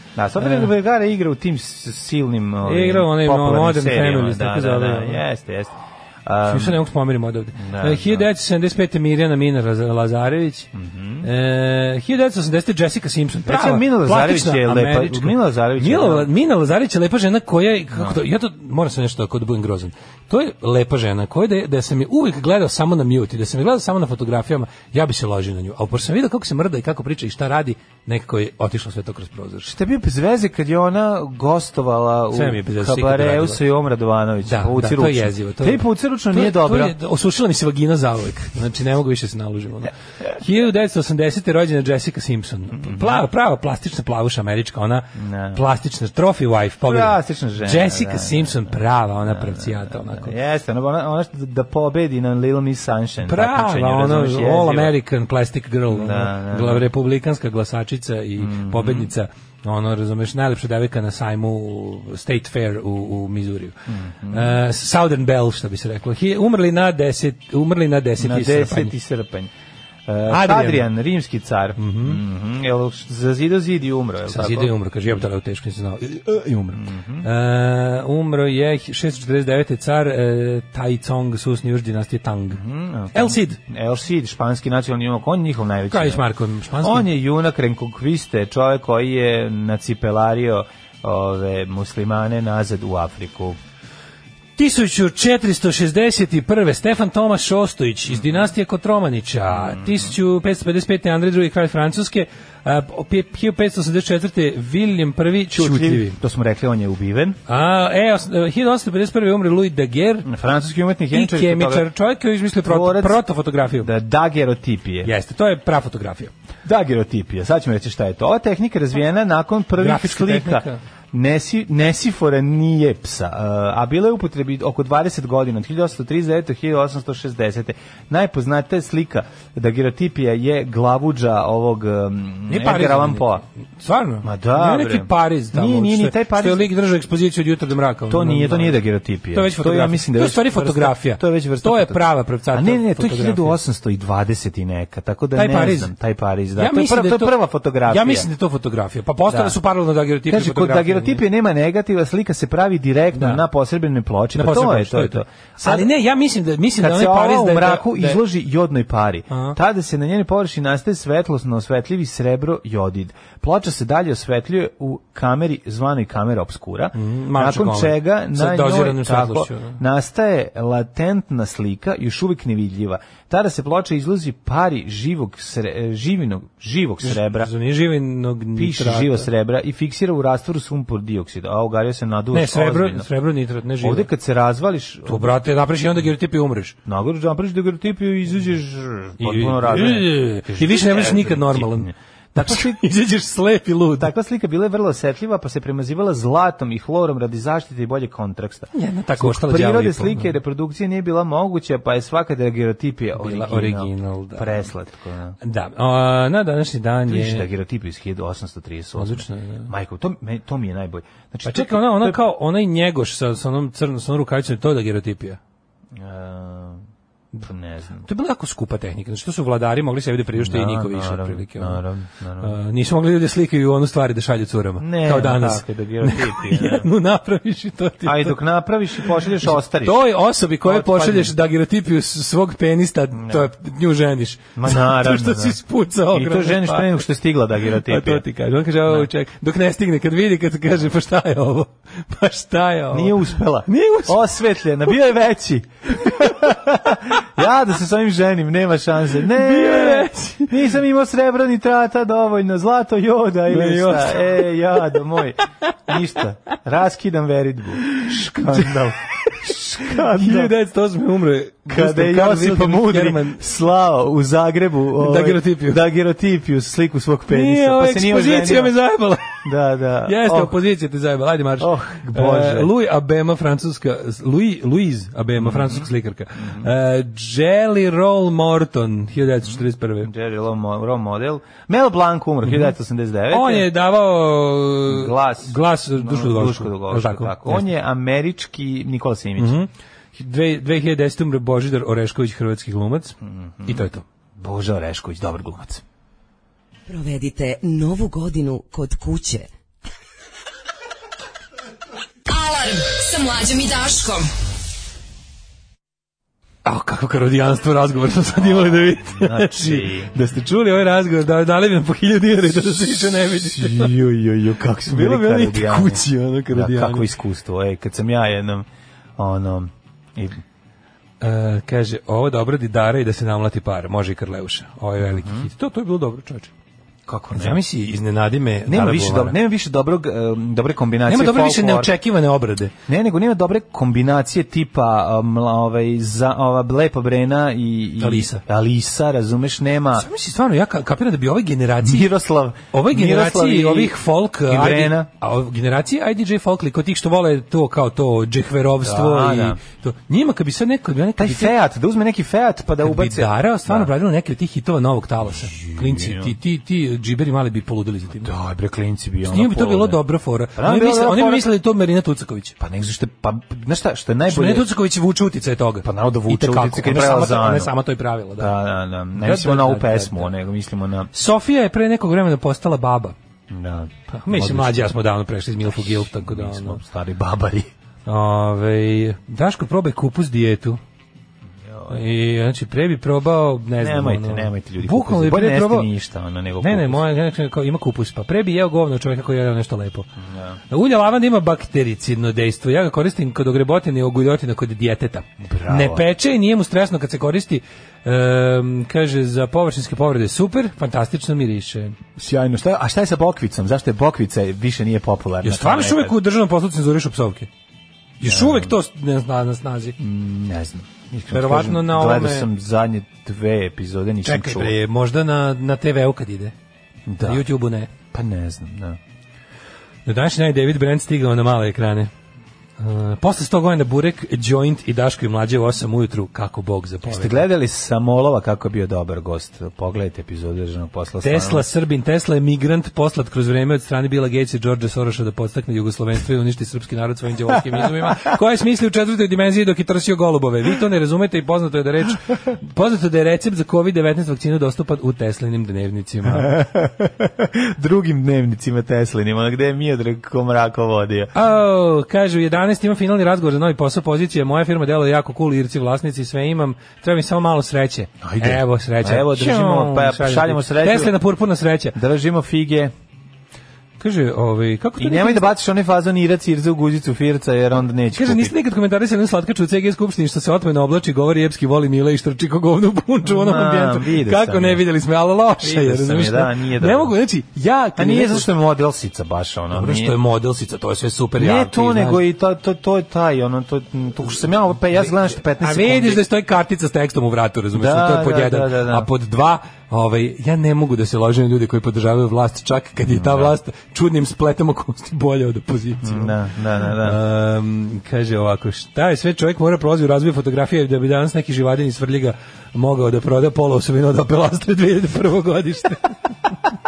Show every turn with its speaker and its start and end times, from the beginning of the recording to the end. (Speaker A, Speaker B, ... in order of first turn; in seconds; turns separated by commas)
Speaker A: 0.1-6.8, Speaker B: 0.4-0.7, Speaker B: 2.6-5.2, Speaker B: 6.5-29.7, Speaker A: 7.6-8.3, Speaker A: 10.7-11.3, Speaker A: 13.4-16.3, Speaker A: 17.9-18.2, Speaker A: 29.6-37.0, Speaker B: 32.3-33.6, Speaker B: 34.5-50.3, Speaker A: 42.8-43.2, Speaker A: 45.1-45.6, Speaker A: 46.8-54.9, Speaker B: 53.2-68.9, Speaker A: 55.9-56.9, Speaker A: 58.4-59.1, Speaker A: 63.9-64.6, Speaker A: 68.2-69.5, Speaker A: 70.1-74.7, Speaker B: 70.3-70.9, Speaker B: 71.8-72.2, Speaker B: 74.3-82.6, Speaker A: 76.8-77.3, Speaker A: 82.5-86.2, Speaker B: 83.1-83.6, Speaker B: 85.9-87.1, Speaker A: 86.8-93.6, Speaker B: 94.6-106.2, Speaker A: 98.1-98.5, Speaker A: 99.5-100.1, Speaker A: 105.5-107.4, Speaker B: 107.5-110.3, Speaker A: 110.2-111.9, Speaker B: 111.1-113.9, Speaker A: 112.6-113.2, Speaker A: 113.8-115.1, Speaker B: 115.0-116.3, Speaker A: 116.6-133.4, Speaker B: 119.8-120.8, Speaker B: 132.5-138.8, Speaker A: 134.2-136.7, Speaker A: 138.1-148.2, Speaker B: 139.3-143.6, Speaker B: 145.3-145.9, Speaker B: 146.6-151.2, Speaker A: 149.3-149.6, Speaker A: 150.3-155.9, Speaker B: 153.1-153.4, Speaker B: 154.3-158.2, Speaker A: 156.8-177.5, Speaker B: 159.3-159.6, Speaker B: 166.9-169.8, Speaker B: 177.0-179.3, Speaker A: 178.6-183.1, Speaker B: 182.3-184.1, Speaker A: 183.8-185.3, Speaker B: 185.1-186.8, Speaker A: 186.8-192.8, Speaker B: 189.2-194.1, Speaker A: 194.0-205.3, Speaker B: 198.7-200.3, Speaker B: 203.2-204.7, Speaker B: 205.4-207.5, Speaker A: 207.1-212.2, Speaker B: 209.0-209.7, Speaker B: 211.4-215.4, Speaker A: 215.9-216.8, Speaker A: 217.4-218.1, Speaker B: 218.0-221.8, Speaker A: 220.4-222.5, Speaker B: 222.4-228.4, Speaker A: 224.8-226.9, Speaker A: 228.0-230.0, Speaker B: 229.0-237.0, Speaker A: 230.6-231.3, Speaker A: 233.1-233.5, Speaker A: 234.6-235.6, Speaker A: 236.1-238.2, Speaker B: 237.8-244.2, Speaker A: 242.9-260.5, Speaker B: 246.0-246.4, Speaker B: 249.3-250.6, Speaker B: 253.5-254.4, Speaker B: 257.8-263.4, Speaker A: 261.7-268.7, Speaker B: 265.0-265.8, Speaker B: 267.3-269.4, Speaker A: 269.4-270.6, Speaker B: 270.0-280.1, Speaker A: 271.6-272.7, Speaker A: 275.4-275.9, Speaker A: 276.4-276.7, Speaker A: 280.0-283.7, Speaker B: 283.3-287.7, Speaker A: 284.9-289.6, Speaker B: 289.4-294.0, Speaker A: 293.2-295.8, Speaker C: 296.9-299.5, Speaker D: 302.3-304.3, Speaker B: 306.6-313.9, Speaker A: 308.5-310.1, Speaker A: 313.3-318.6, Speaker B: 314.9-317.1, Speaker A: 319.2-320.4, Speaker B: 321.2-326.5, Speaker A: 325.0-325.5, Speaker A: 327.1-327.6, Speaker B: 327.3-329.4, Speaker A: 328.7-331.9, Speaker B: 331.1-332.7, Speaker A: 332.9-340.1, Speaker B: 338.0-338.4, Speaker B: 339.9-342.1, Speaker A: 341.8-345.1, Speaker B: 342.7-351.5, Speaker A: 348.8-349.6, Speaker A: 351.2-353.9, Speaker B: 352.8-358.3, Speaker A: 355.4-356.3, Speaker A: 358.2-360.0, Speaker B: 359.3-362.6, Speaker A: 360.5-361.5, Speaker A: 362.6-364.7, Speaker B: 364.3-368.5, Speaker A: 365.8-367.7, Speaker A: 368.4-371.1, Speaker B: 369.2-370.3, Speaker B: 371.1-373.1, Speaker A: 373.5-374.9, Speaker B: 374.1-376.8, Speaker A: 375.7-377.7, Speaker B: 378.1-380.8, Speaker A: 381.6-382.0, Speaker B: 381.9-385.9, Speaker A: 383.8-387.0, Speaker B: 386.6-390.1, Speaker A: 390.2-390.6, Speaker B: 390.7-402.0, Speaker A: 395.4-396.1, Speaker A: 402.1-406.1, Speaker B: 405.4-407.5, Speaker B: 408.2-410.0, Speaker A: 408.2-408.7, Speaker A: 410.0-414.7, Speaker B: 411.3-412.5, Speaker B: 414.2-416.5, Speaker A: 417.1-417.4, Speaker B: 417.2-417.9, Speaker A: 418.1-419.0, Speaker B: 420.1-422.1, Speaker B: 422.8-427.4, Speaker A: 427.0-431.7, Speaker B: 431.2-446.6, Speaker A: 446.2-451.3, Speaker B: 451.3-461.9, Speaker A: 458.2-461.1, Speaker A: 461.9-462.9, Speaker B: 464.0-465.5, Speaker A: 465.0-468.5, Speaker B: 468.1-478.5, Speaker A: 473.2-474.8, Speaker A: 475.6-477.1, Speaker A: 478.0-480.1, Speaker B: 479.7-482.2, Speaker A: 481.4-486.2, Speaker B: 485.6-496.3, Speaker A: 487.7-489.1, Speaker A: 493.0-493.5, Speaker A: 496.0-497.2, Speaker B: 497.0-506.1